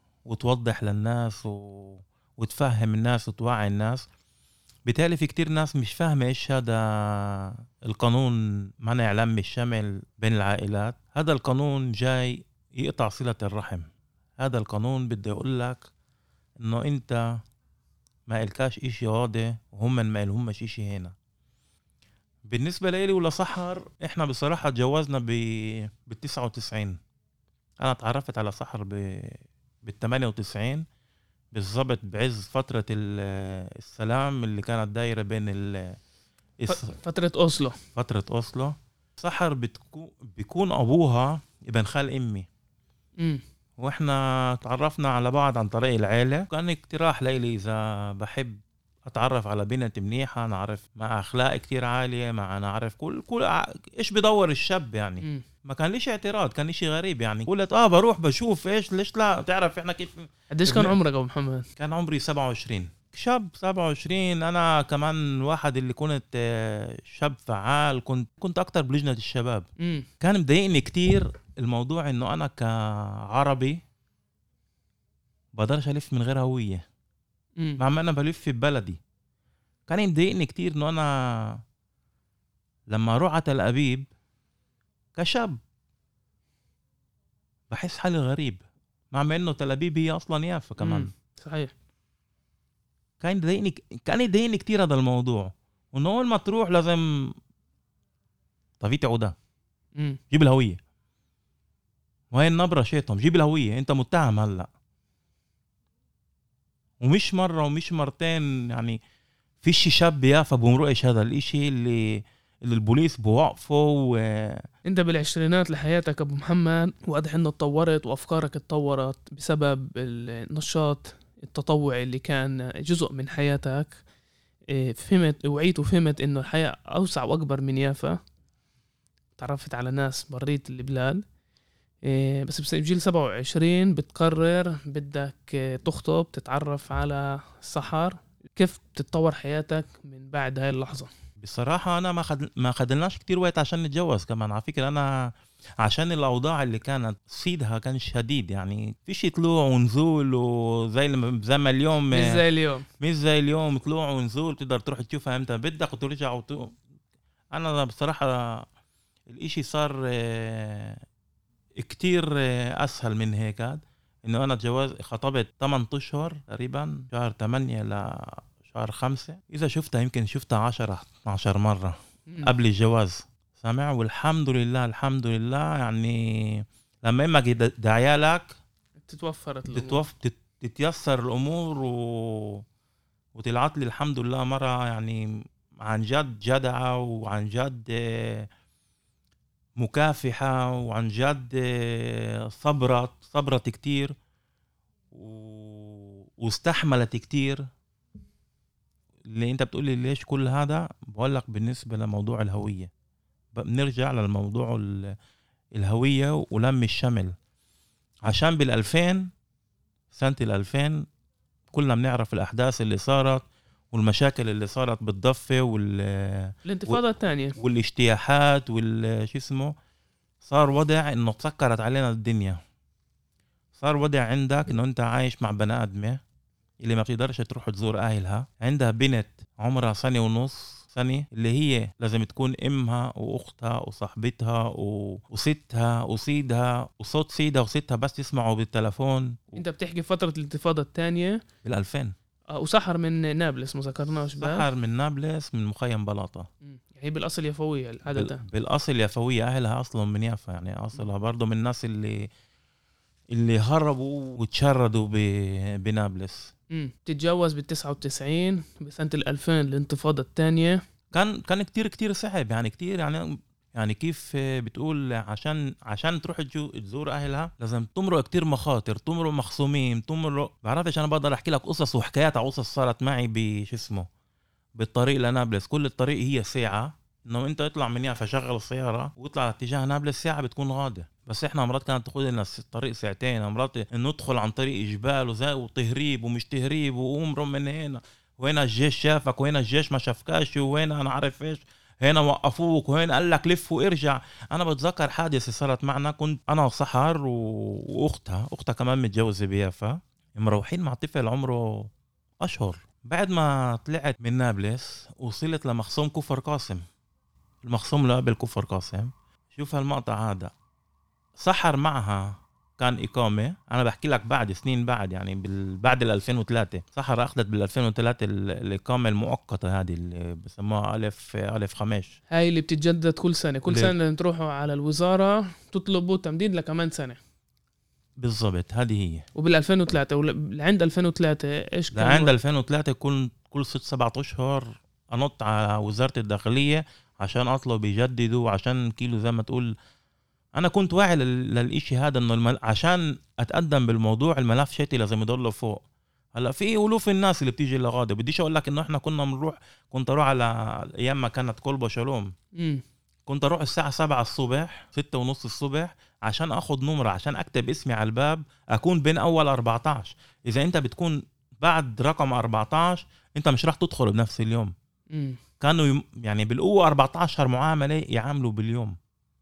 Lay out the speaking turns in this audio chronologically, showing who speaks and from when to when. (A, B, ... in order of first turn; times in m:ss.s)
0:00.3-0:04.1 A
0:04.9-0:13.9 A
0:14.4-0:15.9 A
0:16.6-0:17.2 A
0:18.3-0:21.1 A
0:22.5-0:27.0 A
0:27.8-0:30.8 A
0:31.5-0:36.0 A
0:36.6-0:36.9 A
0:36.7-0:37.8 B
0:38.0-0:42.5 A
0:43.8-1:01.0 A
1:00.5-1:01.7 B
1:01.8-1:09.7 A
1:09.8-1:10.1 B
1:10.2-1:12.7 A
1:13.3-1:13.8 A
1:15.6-1:16.8 A
1:17.8-1:19.0 A
1:19.9-1:21.6 A
1:22.9-1:24.1 A
1:25.2-1:25.6 A
1:27.7-1:28.6 A
1:29.1-1:31.1 A
1:30.8-1:31.7 B
1:33.2-1:37.0 A
1:38.8-1:39.4 A
1:40.3-1:40.8 A
1:42.3-1:44.7 A
1:47.0-1:49.0 A
1:49.6-1:54.6 A
1:54.8-2:04.0 B
2:04.7-2:08.2 B
2:09.4-2:11.2 B
2:12.0-2:21.1 B
2:21.4-2:25.3 A
2:25.8-2:32.4 A
2:32.1-2:32.9 B
2:33.0-2:36.7 A
2:37.5-2:38.7 A
2:39.3-2:41.0 A
2:41.8-2:58.6 A
2:59.0-3:00.0 B
2:59.7-3:02.6 A
3:03.4-3:05.2 A
3:05.8-3:08.5 A
3:09.8-3:14.2 A
3:15.1-3:17.6 A
3:19.3-3:22.9 A
3:23.6-3:25.1 A
3:25.8-3:27.4 A
3:28.3-3:29.3 A
3:30.1-3:31.0 A
3:31.7-3:37.0 A
3:36.6-3:37.6 B
3:37.6-3:39.7 A
3:40.4-3:42.6 A
3:43.8-3:46.2 A
3:46.8-3:59.6 A
3:59.6-4:01.4 B
4:01.6-4:02.2 A
4:02.5-4:04.7 B
4:04.4-4:06.5 A
4:06.6-4:08.4 B
4:08.2-4:12.3 A
4:13.3-4:16.5 A
4:16.7-4:20.8 B
4:21.1-4:23.2 A
4:23.8-4:34.1 A
4:34.8-5:01.9 A
5:02.4-5:06.8 A
5:07.6-5:10.5 A
5:11.4-5:22.1 A
5:22.3-5:27.2 B
5:23.7-5:23.9 A
5:28.2-5:29.2 A
5:29.4-5:32.3 B
5:31.9-5:39.7 A
5:40.6-5:45.8 A
5:46.4-5:52.3 A
5:52.6-5:52.8 B
5:53.3-6:04.7 A
6:05.1-6:05.4 B
6:05.6-6:09.0 A